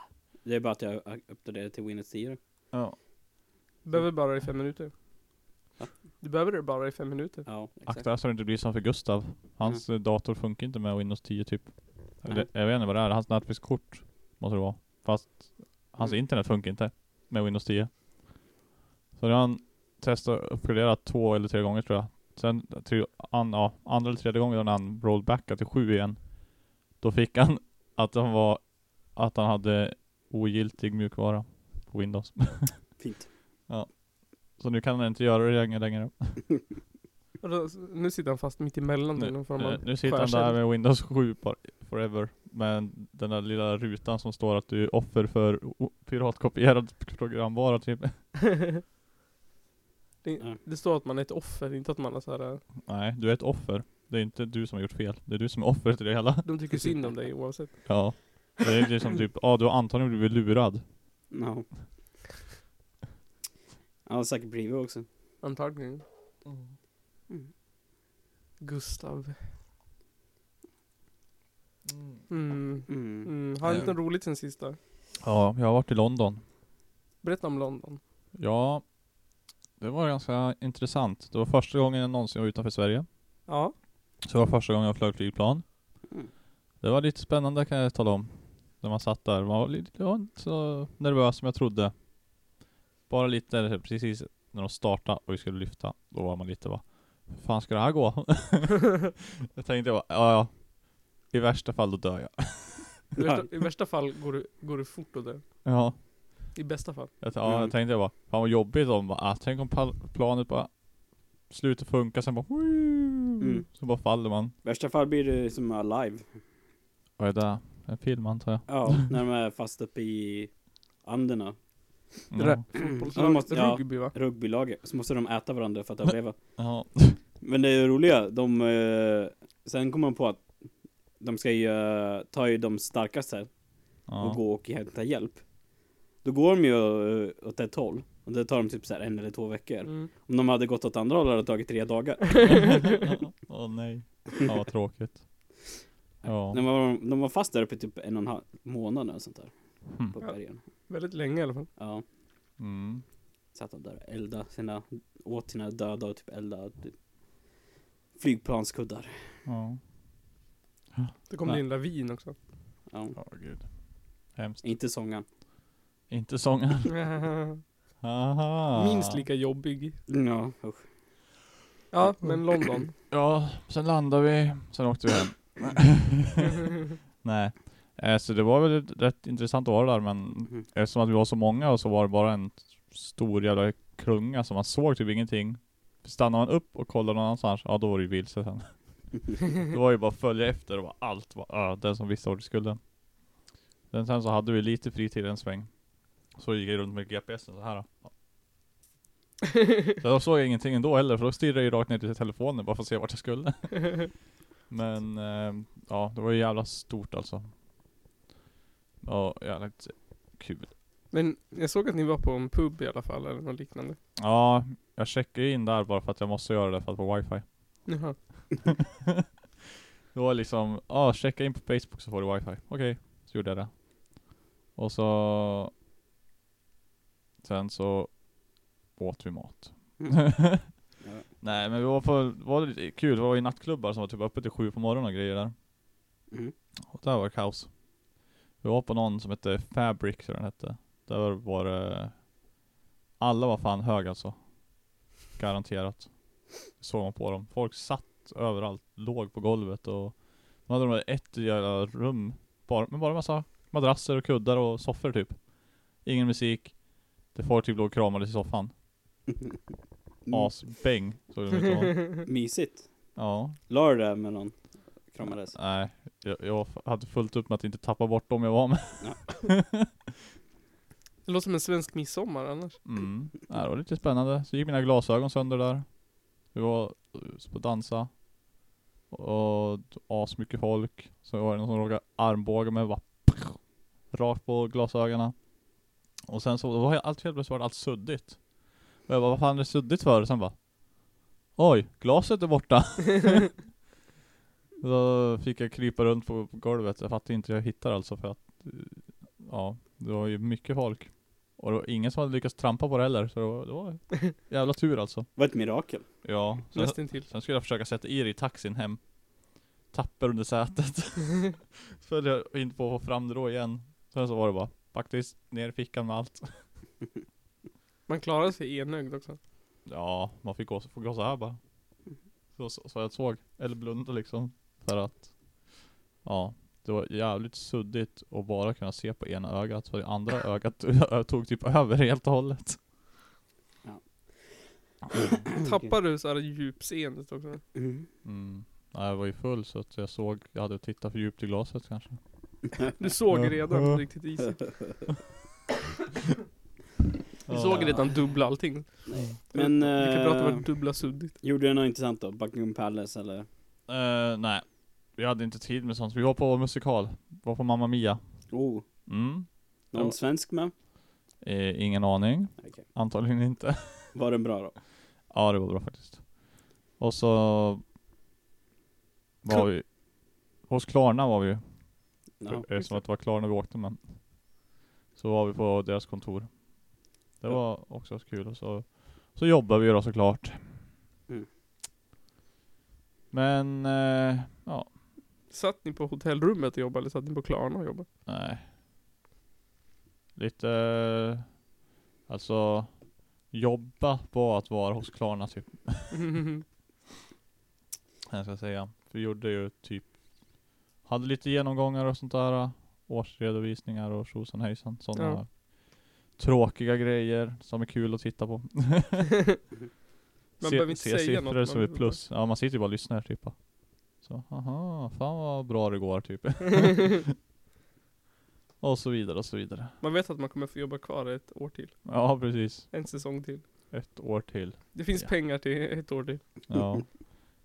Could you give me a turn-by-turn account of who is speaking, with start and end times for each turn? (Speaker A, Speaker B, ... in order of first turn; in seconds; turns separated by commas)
Speaker A: 0.4-2.4, Speaker B: 2.7-3.0, Speaker C: 3.9-4.9, Speaker C: 6.2-7.5, Speaker A: 7.5-8.1, Speaker B: 7.9-17.9, Speaker B: 19.2-32.9, Speaker A: 33.0-33.3, Speaker B: 34.5-36.5, Speaker C: 37.4-40.6, Speaker B: 39.2-48.2, Speaker C: 50.2-52.6, Speaker B: 52.8-56.5, Speaker C: 56.5-58.2, Speaker B: 57.9-60.8, Speaker A: 61.3-61.7, Speaker A: 64.1-65.1, Speaker C: 65.4-66.0, Speaker B: 66.5-66.7, Speaker C: 68.6-69.5, Speaker B: 71.9-72.3, Speaker C: 72.3-74.8, Speaker A: 72.9-73.3, Speaker B: 73.6-74.0, Speaker B: 75.2-76.4, Speaker C: 77.2-78.0, Speaker B: 78.4-78.8, Speaker B: 79.8-83.1, Speaker C: 83.5-83.8, Speaker B: 84.2-85.6, Speaker B: 86.8-91.9, Speaker B: 93.1-100.7, Speaker B: 101.2-103.0, Speaker C: 103.2-105.4, Speaker A: 103.2-103.7, Speaker B: 105.7-106.0, Speaker C: 106.5-107.1, Speaker B: 107.2-110.8, Speaker A: 107.5-107.7, Speaker B: 111.5-114.5, Speaker A: 113.4-113.7, Speaker A: 114.6-116.3, Speaker B: 117.2-119.0, Speaker A: 118.7-120.5, Speaker A: 121.0-121.6, Speaker B: 122.3-122.6, Speaker C: 122.4-124.1, Speaker A: 122.8-126.4, Speaker B: 126.6-127.2, Speaker A: 127.4-130.5, Speaker A: 131.2-133.5, Speaker B: 134.1-134.4, Speaker A: 134.2-135.4, Speaker A: 136.2-142.8, Speaker C: 142.3-142.9, Speaker B: 142.4-145.2, Speaker A: 146.2-149.5, Speaker B: 146.2-146.6, Speaker A: 150.1-150.6, Speaker C: 150.9-151.7, Speaker A: 151.8-152.0, Speaker B: 152.6-153.0, Speaker A: 153.6-157.0, Speaker A: 158.2-159.2, Speaker B: 159.5-159.8, Speaker C: 161.3-162.4, Speaker A: 162.9-163.2, Speaker B: 163.2-164.7, Speaker A: 164.6-165.2, Speaker B: 166.1-166.9, Speaker C: 166.9-167.6, Speaker B: 168.0-169.2, Speaker C: 168.8-170.0, Speaker A: 170.1-170.8, Speaker C: 171.9-172.9, Speaker B: 173.1-176.6, Speaker B: 177.2-188.8, Speaker B: 189.4-192.8, Speaker B: 193.9-195.7, Speaker B: 196.3-198.1, Speaker B: 200.0-204.1, Speaker B: 204.7-207.5, Speaker B: 209.0-210.7, Speaker C: 211.1-214.0, Speaker B: 214.2-217.8, Speaker C: 217.9-218.2, Speaker B: 218.8-219.2, Speaker B: 220.1-223.9, Speaker B: 224.8-225.7, Speaker B: 227.4-228.2, Speaker B: 229.0-230.7, Speaker A: 230.0-231.3, Speaker B: 231.4-235.5, Speaker B: 236.9-237.7, Speaker B: 238.6-242.2, Speaker B: 243.2-244.4, Speaker B: 245.4-255.4, Speaker B: 256.0-258.7, Speaker B: 260.3-262.3, Speaker A: 262.3-262.9, Speaker B: 263.2-263.6, Speaker A: 263.7-264.6, Speaker A: 265.1-265.6, Speaker B: 265.2-269.9, Speaker C: 271.3-272.8, Speaker B: 272.8-275.9, Speaker B: 276.4-278.2, Speaker B: 279.1-285.4, Speaker B: 286.3-288.4, Speaker B: 289.0-290.6, Speaker B: 291.6-293.5, Speaker B: 294.8-305.3, Speaker A: 305.4-306.1, Speaker B: 306.2-309.1, Speaker C: 306.7-307.3, Speaker B: 309.9-316.6, Speaker C: 318.1-319.4, Speaker B: 319.9-321.6, Speaker B: 322.6-325.7, Speaker B: 326.2-332.8, Speaker A: 335.5-335.9, Speaker C: 335.6-337.6, Speaker A: 337.8-338.1, Speaker B: 338.2-342.7, Speaker C: 343.0-344.7, Speaker B: 343.3-344.1, Speaker B: 347.5-348.1, Speaker C: 347.5-351.4, Speaker A: 347.7-348.0, Speaker A: 349.1-350.6, Speaker A: 351.4-353.5, Speaker B: 353.9-358.5, Speaker A: 358.5-358.9, Speaker B: 359.1-360.2, Speaker A: 359.9-360.7, Speaker B: 361.4-364.1, Speaker A: 362.6-362.8, Speaker A: 364.1-364.8, Speaker B: 365.3-366.3, Speaker B: 367.0-367.8, Speaker B: 369.4-369.9, Speaker B: 370.6-371.7, Speaker A: 372.4-372.7, Speaker B: 372.5-374.1, Speaker B: 375.1-376.6, Speaker B: 377.4-380.8, Speaker B: 383.3-384.9, Speaker C: 385.5-388.1, Speaker B: 388.3-388.7, Speaker B: 390.4-391.5, Speaker B: 392.3-396.3, Speaker C: 396.1-396.6, Speaker B: 398.3-400.1, Speaker B: 401.0-409.3, Speaker C: 410.6-412.2, Speaker B: 410.6-413.6, Speaker B: 414.2-417.2, Speaker B: 418.8-419.9, Speaker C: 420.0-422.1, Speaker B: 422.1-422.9, Speaker C: 422.9-423.6, Speaker B: 423.9-425.3, Speaker C: 424.9-426.4, Speaker B: 426.7-427.3